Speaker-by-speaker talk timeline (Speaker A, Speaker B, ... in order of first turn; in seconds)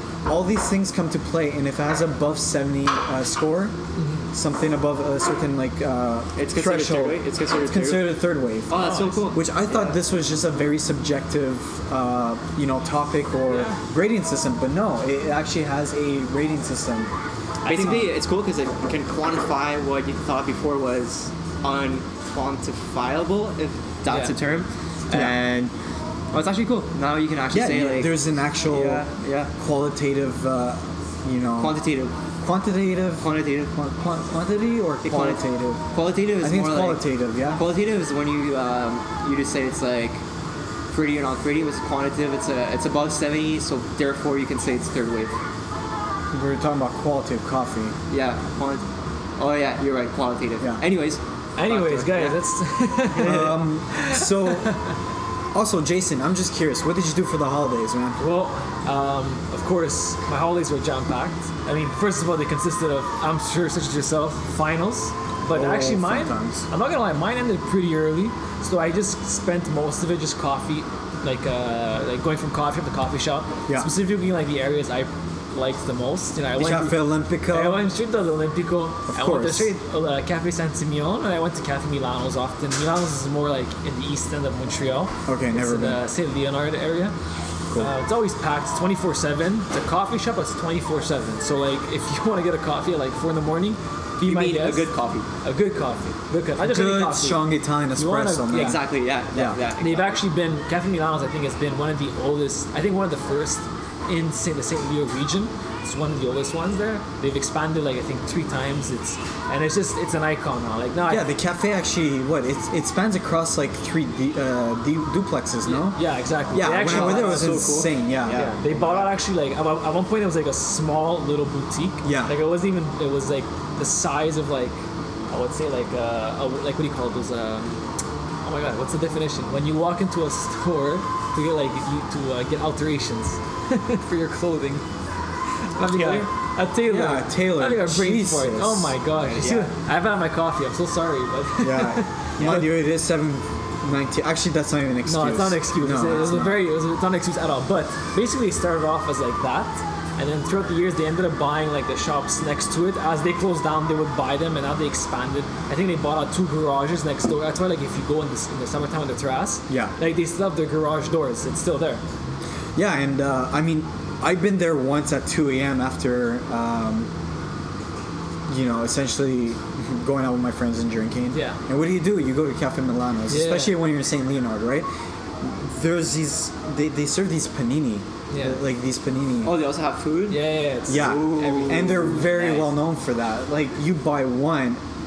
Speaker A: 0.2-3.7, 4.3-17.1, 17.6-18.1, 25.1-25.4, 27.5-29.0, 29.6-31.8, 32.4-35.8, 36.4-37.6, 46.3-48.0, 53.2-54.8, 55.5-58.2, 65.5-66.6, 76.5-77.8, 79.1-79.7, 85.2-86.0, 96.6-99.6, 111.1-116.0, 116.5-118.8, 122.0-122.4, 136.8-139.0, 141.6-146.6, 159.7-159.9, 162.8-167.1, 168.5-174.9, 175.4-179.6, 180.9-184.8
Speaker B: 4.0-4.3, 8.7-9.4, 13.5-13.8, 24.1-24.3, 51.6-54.9, 58.2-87.1, 87.8-94.9, 95.4-98.8, 99.8-111.3, 115.6-124.8, 125.3-127.8, 128.4-134.8, 135.8-142.6, 145.1-162.0, 171.3-171.6, 173.3-173.8, 178.3-178.6, 180.3-182.5
Speaker C: 6.3-10.0, 17.6-25.7, 26.3-29.5, 31.6-32.1, 33.2-33.7, 35.0-37.0, 37.5-40.2, 40.9-45.4, 48.1-48.8, 49.4-52.4, 53.1-53.6, 94.2-95.3, 98.5-100.2, 116.7-119.1, 135.9-136.3, 139.2-139.7, 142.4-142.6, 179.4-182.7